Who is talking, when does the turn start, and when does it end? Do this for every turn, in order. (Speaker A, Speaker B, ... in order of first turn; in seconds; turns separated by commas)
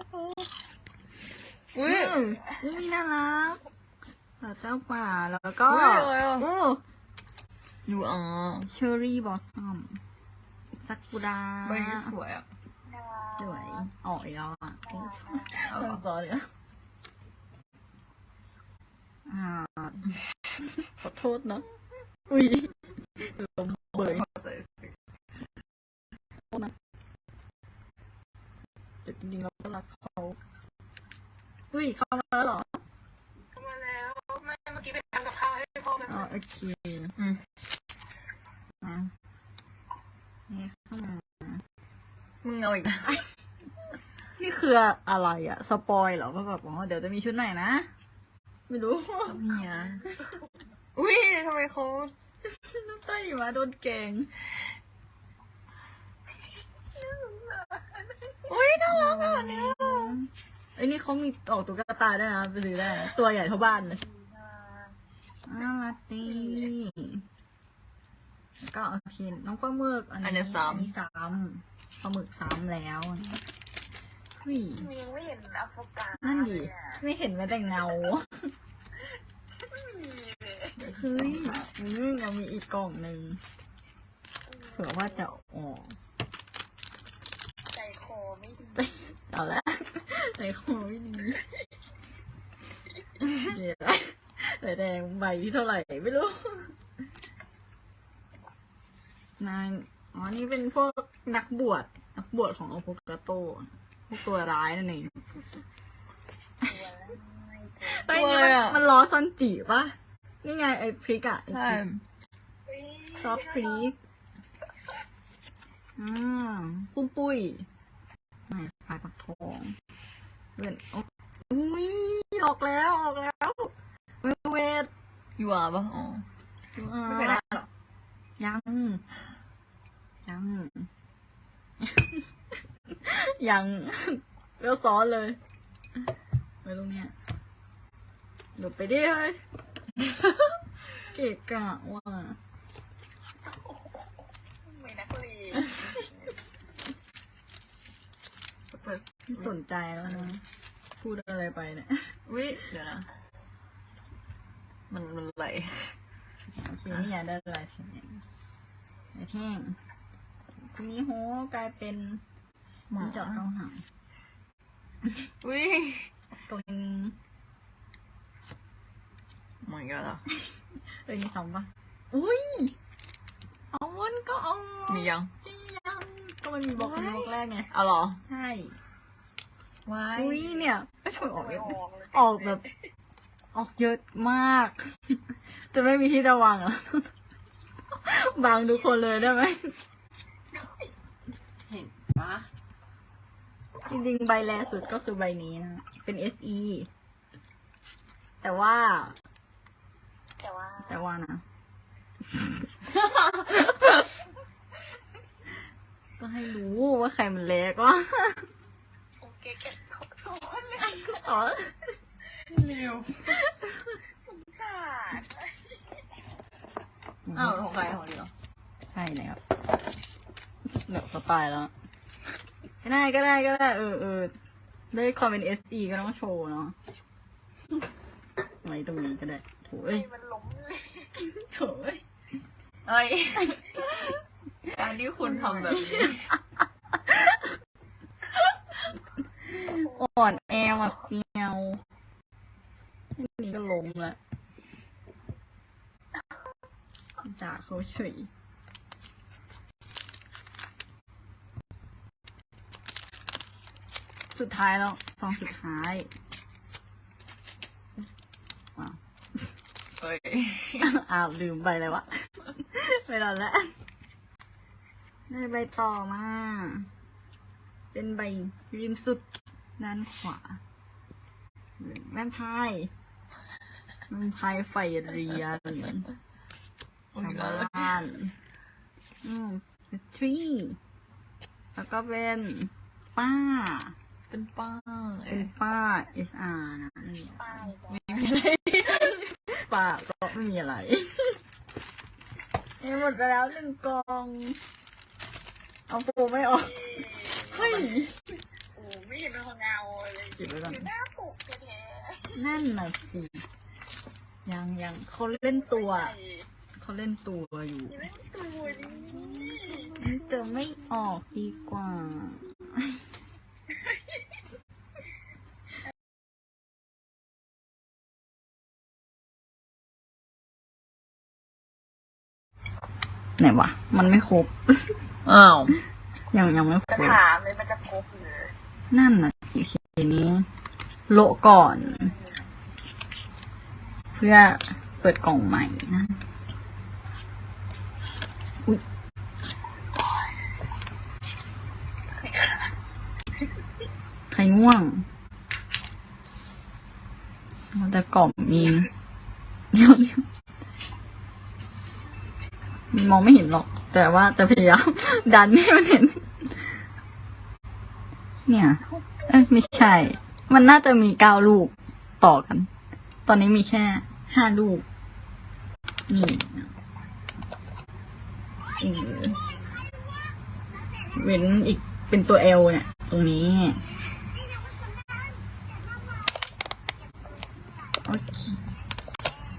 Speaker A: 1.7-2.2, Speaker B: 1.8-3.6, Speaker B: 4.4-6.8, Speaker A: 5.7-6.5, Speaker A: 7.8-8.7, Speaker B: 8.7-10.0, Speaker B: 10.8-12.1, Speaker A: 11.6-12.5, Speaker C: 12.8-13.8, Speaker B: 13.4-16.5, Speaker C: 14.9-15.6, Speaker A: 15.7-16.0, Speaker B: 19.3-20.1, Speaker B: 20.9-21.6, Speaker B: 22.3-24.2, Speaker A: 23.9-24.9, Speaker B: 29.0-30.4, Speaker B: 31.7-32.8, Speaker C: 33.5-36.1, Speaker B: 36.0-37.1, Speaker A: 37.2-37.4, Speaker B: 38.8-39.1, Speaker B: 40.5-41.6, Speaker A: 42.4-43.2, Speaker B: 44.4-47.9, Speaker B: 48.7-49.6, Speaker A: 49.3-50.1, Speaker A: 50.9-52.1, Speaker B: 52.5-54.3, Speaker C: 56.9-58.5, Speaker A: 58.5-60.1, Speaker B: 58.8-64.0, Speaker C: 63.8-65.0, Speaker B: 65.5-67.2, Speaker C: 66.2-66.7, Speaker B: 68.6-73.4, Speaker A: 70.2-70.9, Speaker B: 74.4-74.9, Speaker C: 74.7-77.0, Speaker B: 76.2-78.5, Speaker C: 79.5-80.8, Speaker A: 80.8-81.6, Speaker B: 80.9-83.4, Speaker C: 84.5-85.3, Speaker B: 84.7-85.9, Speaker C: 87.7-89.1, Speaker B: 88.8-91.4, Speaker B: 93.3-96.7, Speaker B: 99.4-105.4, Speaker C: 106.6-108.2, Speaker B: 107.8-111.8, Speaker A: 108.1-108.8, Speaker A: 111.5-112.0, Speaker C: 112.7-113.9, Speaker B: 113.1-114.0, Speaker B: 116.0-117.7, Speaker B: 118.5-119.8, Speaker B: 120.6-124.9, Speaker A: 125.4-126.2, Speaker B: 126.7-127.6, Speaker A: 127.0-127.7, Speaker B: 128.4-129.0, Speaker B: 130.2-130.9, Speaker B: 131.8-132.3, Speaker B: 132.9-135.4, Speaker B: 136.6-137.1, Speaker B: 138.6-139.4, Speaker B: 141.1-142.4, Speaker C: 143.5-144.0, Speaker C: 144.6-146.3, Speaker A: 148.7-149.5, Speaker B: 149.3-150.4, Speaker A: 150.1-150.3, Speaker B: 151.0-152.1, Speaker A: 152.3-153.1, Speaker A: 154.9-155.9, Speaker B: 156.6-158.2, Speaker B: 159.1-159.8, Speaker B: 160.6-162.2, Speaker A: 162.9-163.4, Speaker B: 163.0-163.8, Speaker A: 165.4-166.1, Speaker B: 166.5-167.2, Speaker A: 169.6-170.2, Speaker B: 171.1-172.8, Speaker B: 173.7-177.7, Speaker A: 174.9-175.3, Speaker A: 176.8-178.2, Speaker B: 178.2-178.8, Speaker A: 179.8-180.6, Speaker B: 180.1-182.6, Speaker C: 181.2-182.8, Speaker B: 183.5-187.1, Speaker B: 188.0-189.8, Speaker C: 190.5-190.9, Speaker A: 191.7-192.5, Speaker B: 193.9-196.9, Speaker B: 198.4-199.1, Speaker C: 200.4-201.0, Speaker B: 200.9-201.4, Speaker B: 203.4-203.9, Speaker B: 206.2-208.5, Speaker C: 209.2-211.4, Speaker B: 210.8-211.9, Speaker A: 212.5-213.4, Speaker B: 213.3-214.0, Speaker C: 214.2-216.0, Speaker B: 217.2-217.6, Speaker A: 217.3-218.3, Speaker B: 218.9-219.4, Speaker B: 220.8-221.7, Speaker B: 222.8-224.3, Speaker B: 224.9-226.7, Speaker B: 228.6-230.1, Speaker C: 229.9-231.2, Speaker B: 231.2-232.0, Speaker A: 232.8-233.9, Speaker B: 233.4-234.2, Speaker A: 234.7-236.2, Speaker B: 235.2-236.3, Speaker B: 236.9-237.5, Speaker B: 239.5-241.8, Speaker C: 239.6-240.3, Speaker B: 243.1-244.2, Speaker B: 247.2-248.3, Speaker B: 254.3-256.1, Speaker B: 258.8-259.4, Speaker A: 260.0-260.9, Speaker B: 260.8-263.7, Speaker B: 265.3-266.9, Speaker B: 267.9-269.2, Speaker B: 269.8-270.6, Speaker B: 271.8-272.9, Speaker B: 274.1-276.1, Speaker A: 277.1-277.9, Speaker B: 277.2-278.3, Speaker B: 279.2-280.8, Speaker B: 281.7-283.9, Speaker A: 284.3-285.5, Speaker B: 285.3-287.7, Speaker C: 287.4-288.4, Speaker A: 287.9-289.2, Speaker B: 288.9-291.4, Speaker B: 292.8-294.6, Speaker B: 295.9-298.1, Speaker C: 296.5-297.7, Speaker C: 298.7-302.4, Speaker B: 300.4-300.9, Speaker B: 302.3-303.4, Speaker B: 304.4-306.1, Speaker C: 305.3-306.5, Speaker B: 306.8-308.1, Speaker C: 307.9-310.0, Speaker B: 309.9-313.0, Speaker C: 313.7-314.0, Speaker B: 323.4-324.9, Speaker A: 325.2-325.8, Speaker B: 326.3-327.2, Speaker C: 326.9-328.5, Speaker B: 328.9-330.5, Speaker B: 331.1-332.1, Speaker C: 331.7-332.5, Speaker B: 334.1-336.2, Speaker C: 342.1-342.7, Speaker B: 344.3-345.1, Speaker B: 347.7-348.9, Speaker B: 349.7-350.2, Speaker B: 352.9-356.7, Speaker B: 358.5-362.7, Speaker C: 359.2-360.0, Speaker B: 363.2-364.8, Speaker B: 366.1-366.7, Speaker B: 368.8-369.4, Speaker B: 371.1-373.8, Speaker B: 378.1-378.6